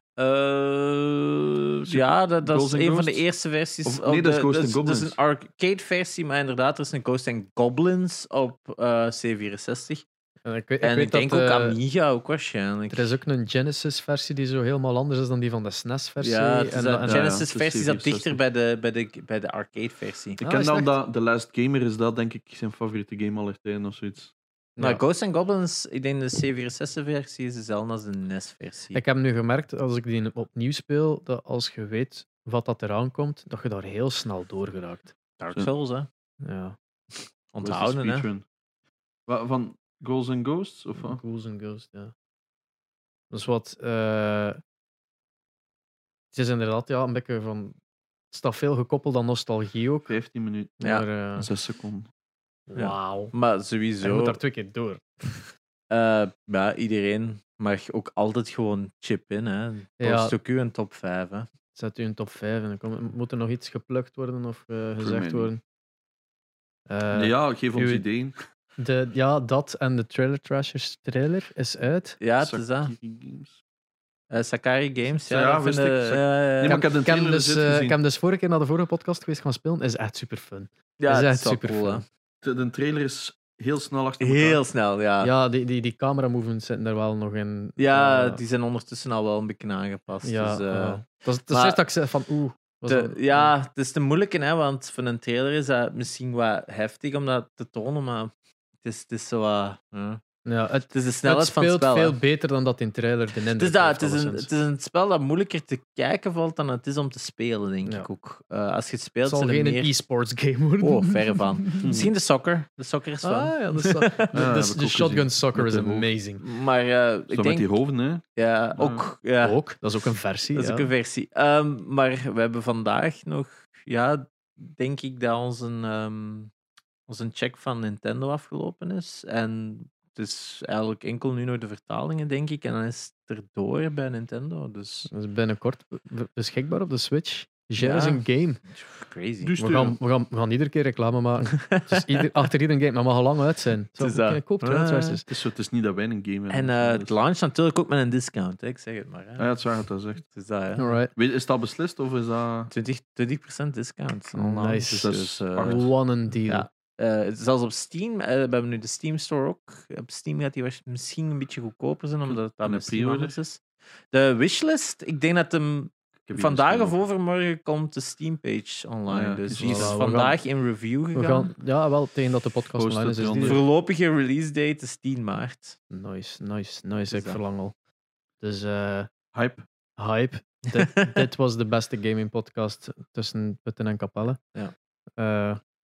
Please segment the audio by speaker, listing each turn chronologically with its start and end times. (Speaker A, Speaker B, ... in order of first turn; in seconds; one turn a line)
Speaker A: 0.2-10.0
Speaker B: 1.9-3.2
Speaker B: 3.8-5.2
Speaker C: 10.4-11.8
Speaker A: 10.8-13.1
Speaker C: 12.9-17.4
Speaker A: 16.2-20.4
Speaker B: 17.1-18.4
Speaker C: 20.4-20.9
Speaker B: 20.4-24.3
Speaker C: 24.8-25.0
Speaker A: 24.8-29.0
Speaker C: 28.9-35.1
Speaker A: 35.4-36.1
Speaker C: 36.4-36.8
Speaker A: 37.5-38.3
Speaker B: 37.6-38.5
Speaker B: 39.2-41.2
Speaker C: 41.0-42.1
Speaker C: 43.3-44.6
Speaker C: 46.3-47.8
Speaker C: 48.3-50.1
Speaker B: 50.0-50.8
Speaker C: 50.8-51.5
Speaker A: 50.8-51.0
Speaker B: 51.4-52.1
Speaker C: 52.7-53.3
Speaker A: 52.7-54.4
Speaker C: 54.0-55.5
Speaker A: 55.9-61.5
Speaker C: 60.0-60.4
Speaker C: 61.7-65.6
Speaker B: 65.0-65.5
Speaker C: 66.9-68.0
Speaker B: 67.1-68.3
Speaker C: 68.8-72.2
Speaker A: 72.2-72.9
Speaker B: 72.4-73.6
Speaker A: 74.3-76.8
Speaker B: 75.2-78.0
Speaker C: 76.7-82.0
Speaker A: 81.0-82.0
Speaker B: 82.4-84.6
Speaker A: 84.2-85.3
Speaker C: 85.2-88.4
Speaker A: 87.8-91.8
Speaker C: 90.2-93.5
Speaker A: 92.9-100.2
Speaker C: 100.4-104.5
Speaker A: 100.9-102.2
Speaker A: 103.5-109.9
Speaker C: 109.2-112.0
Speaker A: 110.8-114.3
Speaker B: 111.8-112.1
Speaker C: 113.2-116.4
Speaker B: 114.3-116.1
Speaker A: 116.4-117.7
Speaker B: 117.3-119.0
Speaker A: 118.3-119.8
Speaker C: 119.4-120.9
Speaker A: 120.5-126.5
Speaker A: 127.1-135.1
Speaker C: 135.1-138.7
Speaker A: 137.8-138.2
Speaker A: 138.7-139.5
Speaker B: 139.4-140.0
Speaker C: 139.6-145.2
Speaker A: 144.0-145.2
Speaker B: 145.3-147.1
Speaker A: 146.5-149.6
Speaker B: 149.4-150.2
Speaker A: 150.2-150.8
Speaker C: 150.8-151.1
Speaker B: 151.1-152.7
Speaker A: 152.7-155.9
Speaker C: 154.3-156.7
Speaker B: 154.9-155.9
Speaker A: 156.4-171.5
Speaker B: 162.2-163.3
Speaker B: 166.2-167.0
Speaker B: 169.1-170.0
Speaker C: 169.6-170.4
Speaker C: 171.1-173.6
Speaker B: 172.8-173.6
Speaker A: 173.4-175.8
Speaker C: 175.9-177.8
Speaker A: 177.1-177.4
Speaker C: 178.4-179.1
Speaker B: 179.3-179.7
Speaker C: 180.0-184.4
Speaker A: 180.8-181.2
Speaker C: 185.2-185.6